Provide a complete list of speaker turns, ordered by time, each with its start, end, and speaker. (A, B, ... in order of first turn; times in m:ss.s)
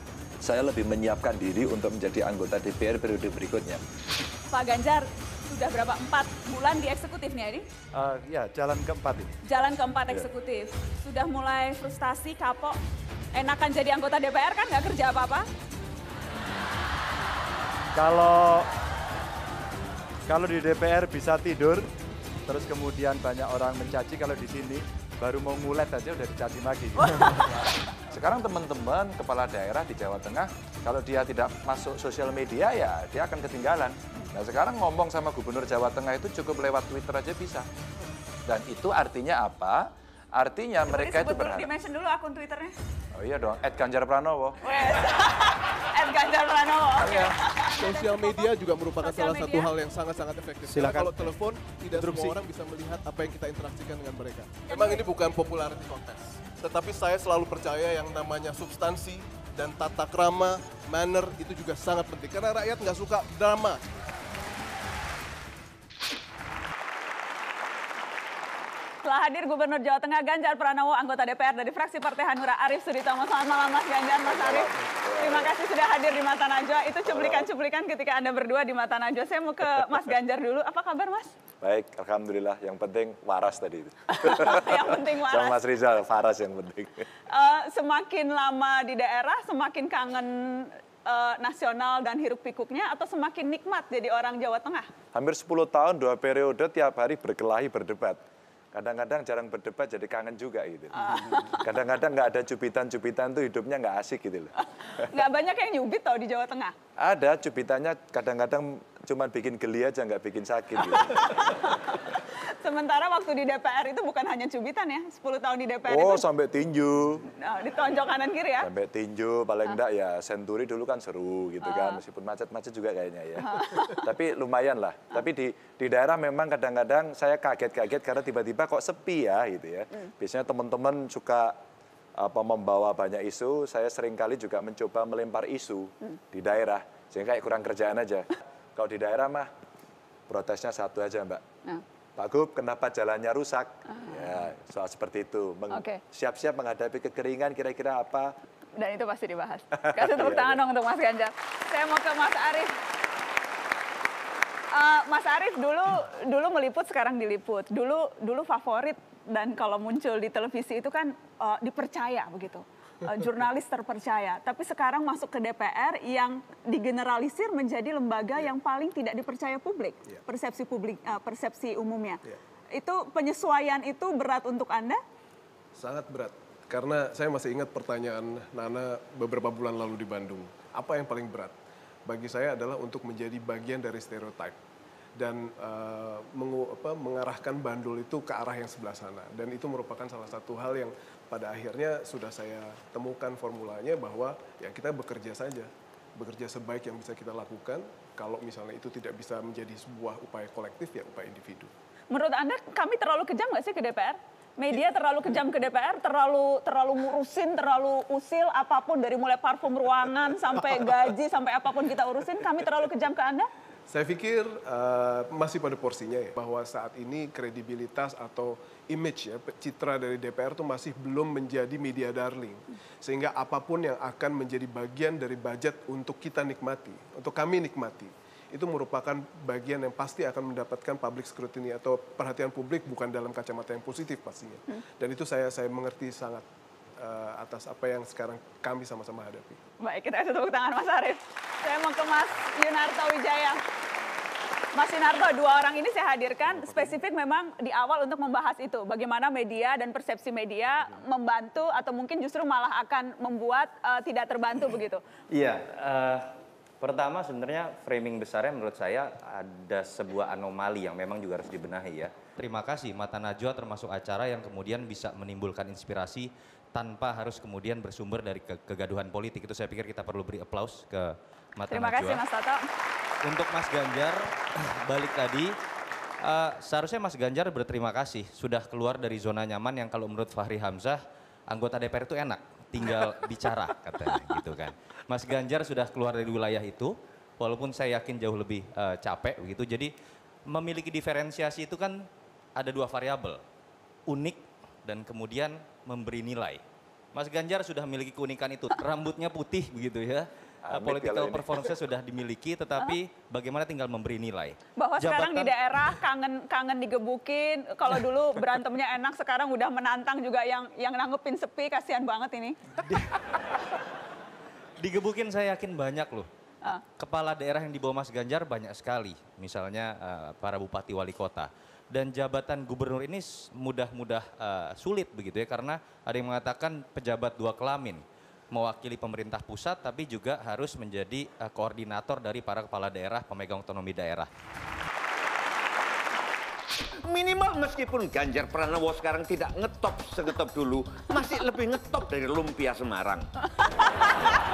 0:00.4-0:03.8 A
0:04.5-0:07.7 B
0:07.9-0:09.4 A
0:09.4-0:12.8 B
0:13.3-0:15.5 B
0:18.0-0:18.7 A
0:20.3-0:21.9 A
0:22.5-0:37.7 A
0:38.5-0:41.7 A
0:40.9-0:42.8 B
0:43.1-0:44.6 A
0:44.6-0:49.7 B
0:47.1-1:03.8 C
0:50.7-0:51.2 A
0:52.0-0:52.3 A
0:54.7-0:55.1 B
1:09.0-1:21.3 B
1:14.3-1:15.5 A
1:17.1-1:17.5 A
1:21.6-1:27.1 A
1:24.1-1:25.6 B
1:27.3-1:34.9 B
1:35.1-1:38.2 A
1:38.7-1:44.5 A
1:41.1-1:41.4 B
1:44.6-1:46.7 B
1:47.0-1:51.3 A
1:51.0-1:56.2 B
1:55.9-1:57.3 A
1:57.4-1:58.7 B
1:58.6-2:11.6 A
2:01.6-2:02.0 B
2:03.4-2:04.0 B
2:12.2-2:19.5 A
2:20.3-2:21.4 A
2:22.2-2:28.3 A
2:23.9-2:24.2 B
2:25.7-2:26.0 B
2:28.8-2:32.8 B
2:29.9-2:30.6 A
2:34.7-2:52.2 B
2:52.7-2:55.0 B
2:55.8-3:01.6 C
3:02.1-3:04.6 C
3:05.2-3:21.7 C
3:22.1-3:33.5 B
3:33.9-3:56.4 C
3:57.0-3:59.6 C
3:59.8-4:03.6 B
4:04.7-4:15.0 B
4:15.3-4:16.3 D
4:16.8-4:32.2 D
4:31.7-4:32.7 B
4:33.2-4:35.6 D
4:36.2-4:49.9 D
4:50.5-4:52.0 D
4:52.6-4:53.4 D
4:54.1-4:56.6 D
4:57.1-5:05.6 D
5:00.6-5:01.7 A
5:04.8-5:12.6 B
5:12.8-5:13.4 D
5:14.8-5:16.3 D
5:16.8-5:34.3 D
5:37.0-5:43.3 E